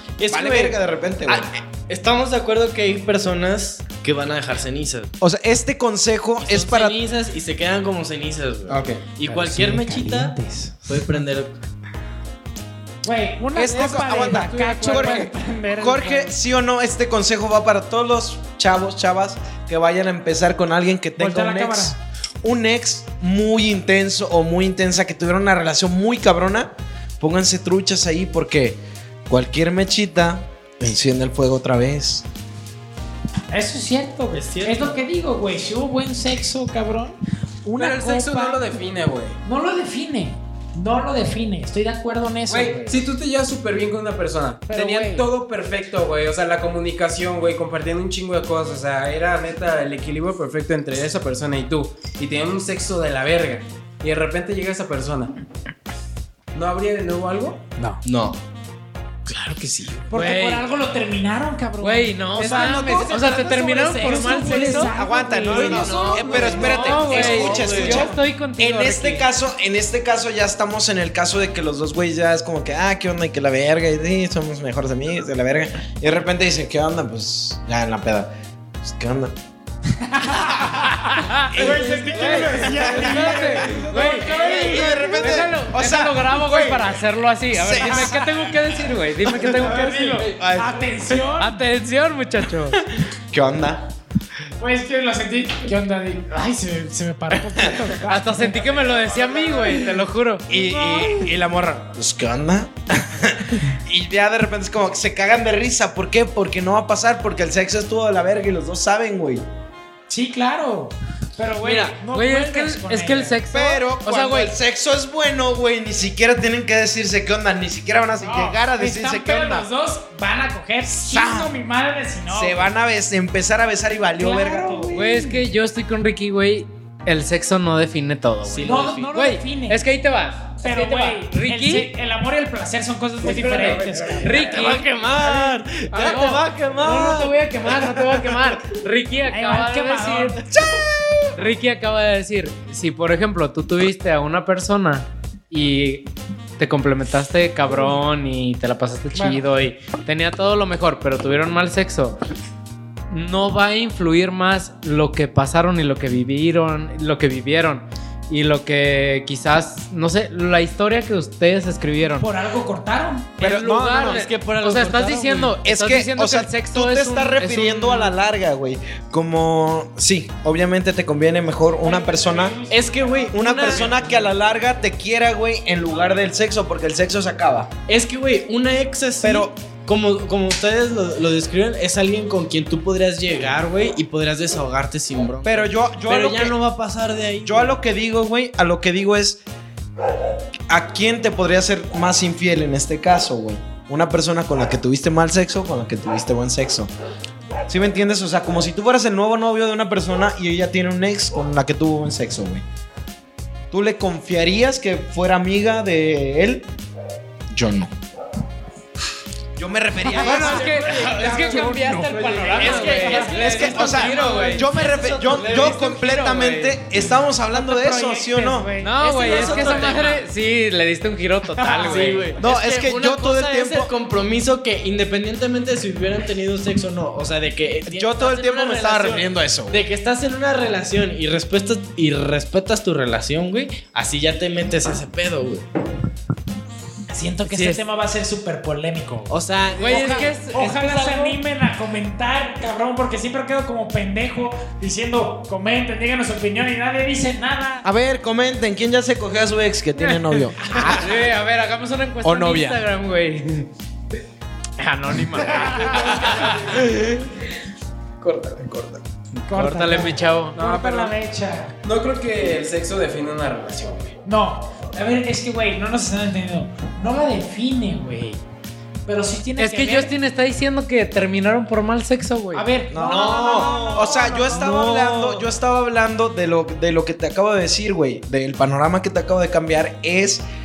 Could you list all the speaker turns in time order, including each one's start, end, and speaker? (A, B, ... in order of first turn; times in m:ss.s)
0:00.2-0:05.1 A
0:00.3-0:01.5 B
0:05.2-0:07.0 B
0:06.4-0:10.4 A
0:08.7-0:09.1 C
0:09.2-0:11.2 D
0:10.9-0:11.6 A
0:13.0-0:16.3 D
0:13.5-0:32.2 B
0:14.0-0:15.3 A
0:21.2-0:22.0 D
0:33.5-0:38.7 D
0:34.5-0:35.0 C
0:37.8-0:39.4 C
0:39.4-0:43.0 D
0:42.5-0:55.3 C
0:44.7-0:45.3 D
0:56.5-0:57.6 C
0:57.8-0:58.0 D
0:58.0-0:58.4 A
0:59.4-1:08.1 D
1:00.1-1:00.7 E
1:01.8-1:04.9 E
1:02.4-1:04.9 C
1:04.9-1:18.3 B
1:05.5-1:07.7 C
1:05.5-1:08.1 A
1:06.5-1:09.3 E
1:18.8-1:19.3 B
1:20.0-1:25.4 D
1:21.0-1:30.3 E
1:21.5-1:26.9 B
1:21.9-1:24.7 C
1:27.5-1:28.6 B
1:27.8-1:28.1 D
1:29.2-1:31.2 B
1:29.4-1:31.6 D
1:30.0-1:30.4 C
1:31.4-1:32.8 E
1:32.7-1:33.8 B
1:34.6-1:38.6 D
1:37.5-1:37.9 B
1:38.1-1:40.5 E
1:38.6-1:39.7 C
1:40.5-1:49.5 B
1:40.6-1:41.3 D
1:50.1-1:53.4 D
1:51.6-1:52.0 A
1:52.1-1:54.6 E
1:53.5-1:59.7 B
1:58.2-2:02.7 D
2:01.0-2:01.5 B
2:02.3-2:05.2 B
2:04.2-2:05.0 D
2:04.9-2:11.9 E
2:08.4-2:09.1 A
2:08.6-2:09.8 D
2:10.6-2:14.4 D
2:13.2-2:16.3 C
2:13.5-2:14.9 E
2:14.4-2:18.3 A
2:15.9-2:20.4 E
2:19.3-2:20.4 D
2:20.5-2:21.3 B
2:21.3-2:26.1 E
2:26.6-2:32.2 E
2:27.7-2:28.0 D
2:29.1-2:29.4 D
2:33.1-2:42.3 E
2:42.2-2:43.4 D
2:43.4-2:44.3 B
2:43.4-2:48.2 E
2:43.8-2:45.6 A
2:45.6-2:52.6 B
2:51.8-2:54.3 D
2:52.7-2:54.1 A
2:53.3-2:57.7 B
2:57.9-3:07.8 A
2:59.2-2:59.5 B
3:05.4-3:06.6 B
3:07.4-3:09.4 B
3:10.7-3:16.9 B
3:17.7-3:22.6 B
3:23.7-3:26.7 B
3:27.5-3:27.9 B
3:29.6-3:31.2 B
3:30.1-3:34.7 E
3:30.2-3:34.5 D
3:30.2-3:34.5 C
3:33.1-3:36.6 A
3:33.3-3:38.7 B
3:35.3-3:36.7 E
3:37.5-3:39.8 D
3:38.8-3:42.3 E
3:39.0-3:40.3 A
3:39.2-3:39.9 B
3:41.6-3:42.1 D
3:41.8-3:55.7 A
3:42.4-3:43.9 B
3:47.9-3:49.8 B
3:57.1-4:07.9 D
3:57.5-3:57.8 A
3:59.3-4:01.4 A
3:59.8-4:00.7 E
4:07.8-4:11.1 B
4:10.0-4:13.7 E
4:10.8-4:11.0 D
4:12.2-4:12.8 B
4:14.8-4:16.9 E
4:15.7-4:16.1 D
4:15.8-4:17.3 C
4:18.2-4:19.0 C
4:19.5-4:21.8 D
4:19.5-4:20.6 E
4:20.5-4:21.2 C
4:21.8-4:24.1 C
4:24.2-4:28.4 D
4:29.1-4:30.1 D
4:29.6-4:32.7 E
4:32.5-4:34.7 D
4:32.9-4:40.4 B
4:33.0-4:35.5 A